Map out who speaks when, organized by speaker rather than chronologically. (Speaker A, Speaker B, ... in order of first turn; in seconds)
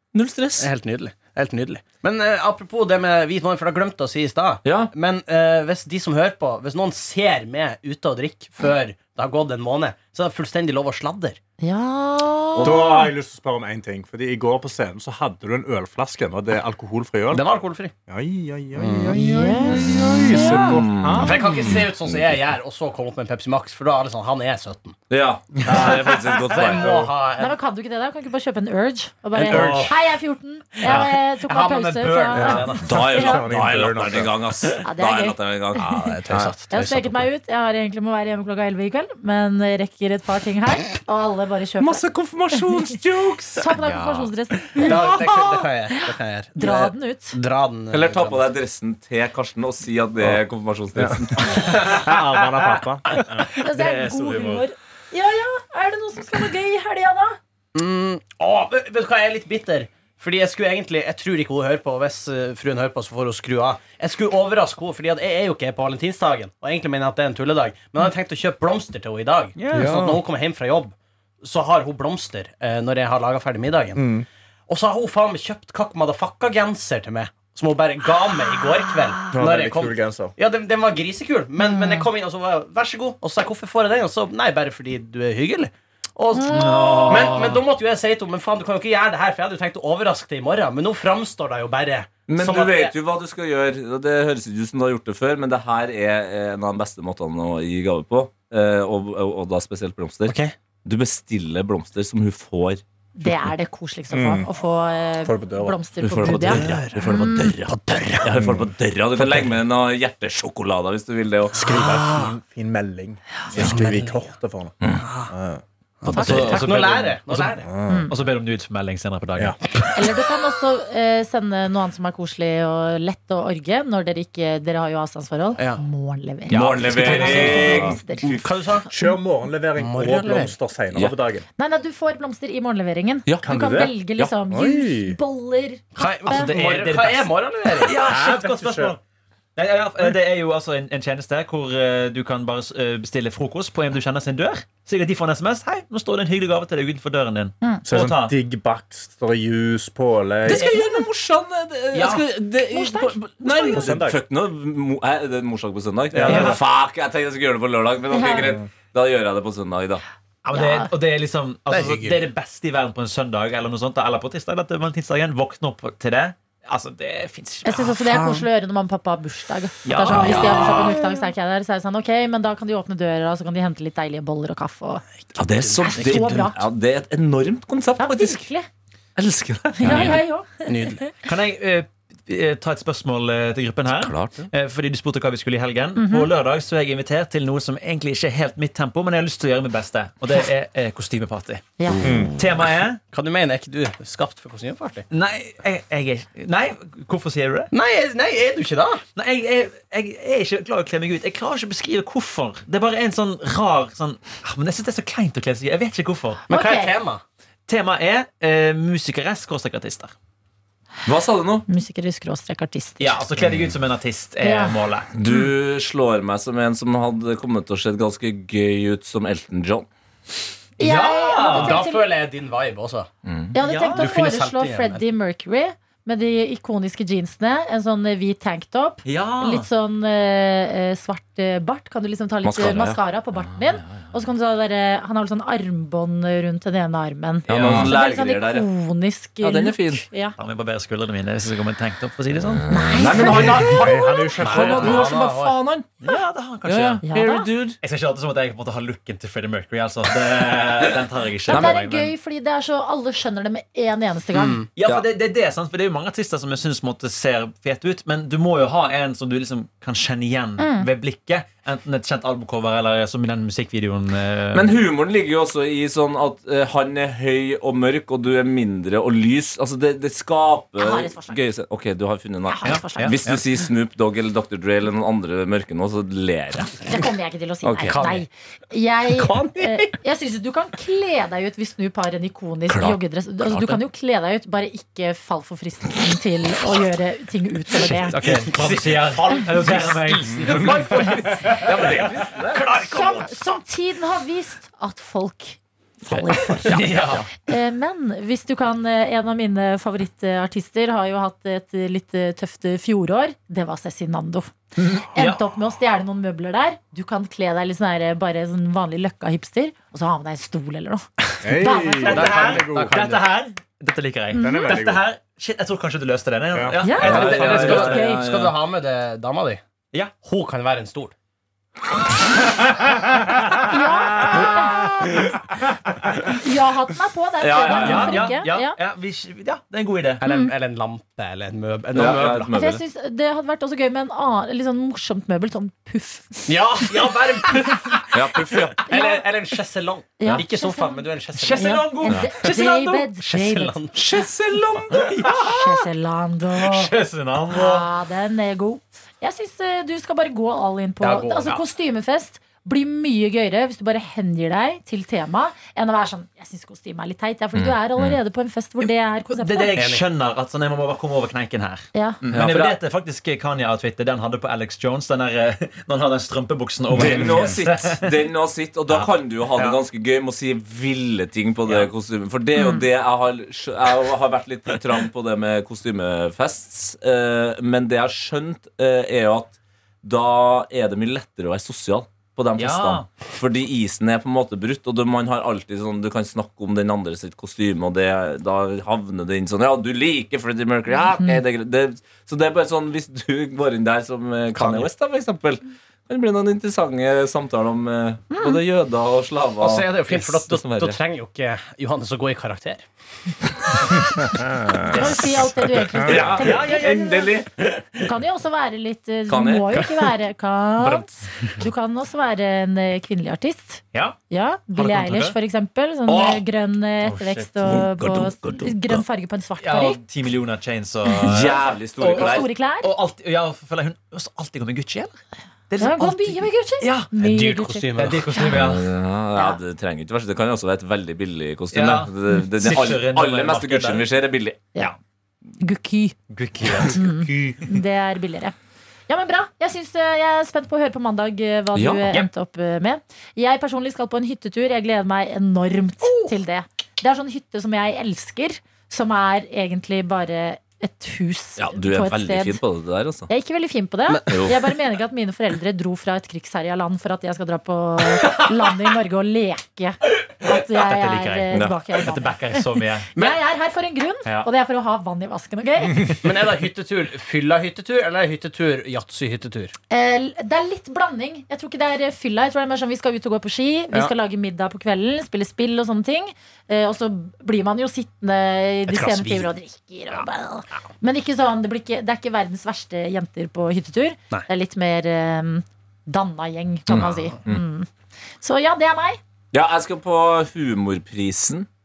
Speaker A: 0.1-0.7, 4.6-4.9, 12.6-13.0, 19.8-21.8, 25.1-27.0, 32.8-35.9, 41.8-43.7, 47.9-51.8, 92.3-102.8, 106.0-111.6, 126.5-128.4, 133.3-133.6, 150.5-160.0, 175.4-178.5, 179.2-180.2, 183.9-184.5, 191.9-192.3, 211.1-211.7, 215.2-219.9, 223.2-223.6, 232.4-234.0, 237.5-238.7, 239.4-240.1, 242.6-245.9, 246.6-247.8, 251.5-251.8, 264.5-276.9, 277.6-278.0, 282.7-283.0, 291.0-292.7, 296.7-297.1, 317.0-318.6, 327.4-328.3, 331.9-332.8, 338.1-338.9, 343.9-345.1, 357.6-358.2, 362.3-362.8, 366.9-401.0, 406.0-407.5, 409.3-409.9, 417.6-419.0, 421.2-422.5, 428.4-434.6, 441.8-442.1, 451.6-453.3, 454.3-454.6, 486.9-487.6, 489.5-491.7
Speaker B: 0.6-11.4, 17.3-17.9, 18.8-19.2, 21.1-25.0, 25.7-27.6, 29.3-30.1, 30.8-33.0, 35.9-37.3, 44.8-48.5, 57.8-74.1, 74.7-92.9, 100.3-100.5, 106.3-108.4, 111.6-112.3, 113.5-114.3, 115.0-115.3, 116.0-117.7, 125.6-125.8, 126.6-129.1, 129.8-130.6, 136.0-138.0, 161.7-162.3, 175.2-176.5, 180.7-181.1, 193.1-195.1, 197.7-199.0, 206.5-207.2, 221.4-223.1, 223.7-225.0, 244.4-245.6, 254.3-254.7, 277.9-278.2, 279.3-279.6, 288.2-290.7, 292.5-293.3, 312.1-313.3, 317.0-321.1, 330.2-332.5, 336.5-338.0, 338.8-344.0, 351.0-351.6, 359.8-360.1, 394.6-394.9, 399.6-402.9, 427.2-428.4, 454.1-454.5, 466.2-469.7, 478.9-479.5, 487.0-487.3
Speaker C: 11.6-13.1, 19.1-20.8, 27.4-33.4, 34.8-35.9, 36.7-42.6, 43.5-47.4, 53.6-57.4, 81.6-82.0, 86.3-87.1, 103.2-107.5, 116.1-116.5, 120.0-128.3, 131.6-136.5, 152.7-153.9, 158.1-158.5, 160.5-160.9, 167.7-175.0, 175.8-176.6, 178.0-178.7, 179.8-181.1, 186.0-186.3, 191.8-192.0, 206.5-206.9, 211.7-213.2, 214.4-214.8, 220.8-222.1, 223.5-240.4, 242.7-243.8, 247.0-247.5, 251.5-254.6, 260.6-260.9, 270.8-271.4, 272.5-273.1, 276.9-288.2, 292.9-312.2, 314.3-314.8, 316.8-318.2, 323.7-325.0, 326.3-328.8, 330.3-330.5, 332.5-336.5, 338.9-339.2, 340.2-341.0, 341.6-343.8, 345.3-346.9, 347.5-359.8, 361.9-362.2, 372.6-372.9, 398.3-398.6, 404.9-407.4, 408.0-420.0, 422.1-422.9, 425.8-428.6, 435.6-436.2, 436.8-438.6, 439.1-452.6, 453.3-466.1, 469.9-489.2
Speaker D: 12.6-17.5, 18.1-21.8, 26.8-27.1, 29.5-29.9, 32.4-34.4, 51.0-53.5, 69.7-70.2, 74.0-74.3, 79.3-80.3, 104.1-104.5, 105.2-105.8, 108.4-108.7, 111.5-114.8, 115.3-115.6, 117.7-118.1, 128.9-131.4, 133.4-133.9, 134.5-135.2, 138.0-139.0, 147.9-150.7, 153.7-154.2, 156.1-156.6, 192.0-192.3, 243.5-245.1, 311.4-313.2, 314.4-315.1, 316.5-316.8
Speaker E: 43.8-44.3, 53.6-54.6, 86.5-87.6, 116.1-119.6, 126.5-127.7, 136.1-139.0, 139.6-148.3, 150.5-151.0, 151.9-152.2, 156.2-156.6, 160.4-168.4, 169.8-171.1, 179.8-180.2, 181.2-191.7, 192.3-193.0, 195.1-197.7, 199.2-206.4, 207.7-210.1, 213.0-215.1, 220.8-221.8, 223.6-224.1, 229.1-229.7, 237.5-237.9, 240.4-243.1, 246.0-247.0, 247.8-252.1, 254.8-264.7, 272.6-273.4, 287.8-291.7, 296.6-297.3, 304.8-305.5, 312.0-318.1, 324.4-325.0, 327.6-330.2, 341.4-343.1, 344.9-345.9, 346.6-347.9, 359.4-368.1, 368.9-369.8, 382.6-383.1, 404.9-406.8, 414.8-415.4, 416.1-416.4, 417.0-417.4, 419.6-425.2, 425.7-427.1, 427.9-428.9, 431.7-434.1, 436.3-437.7, 460.5-463.1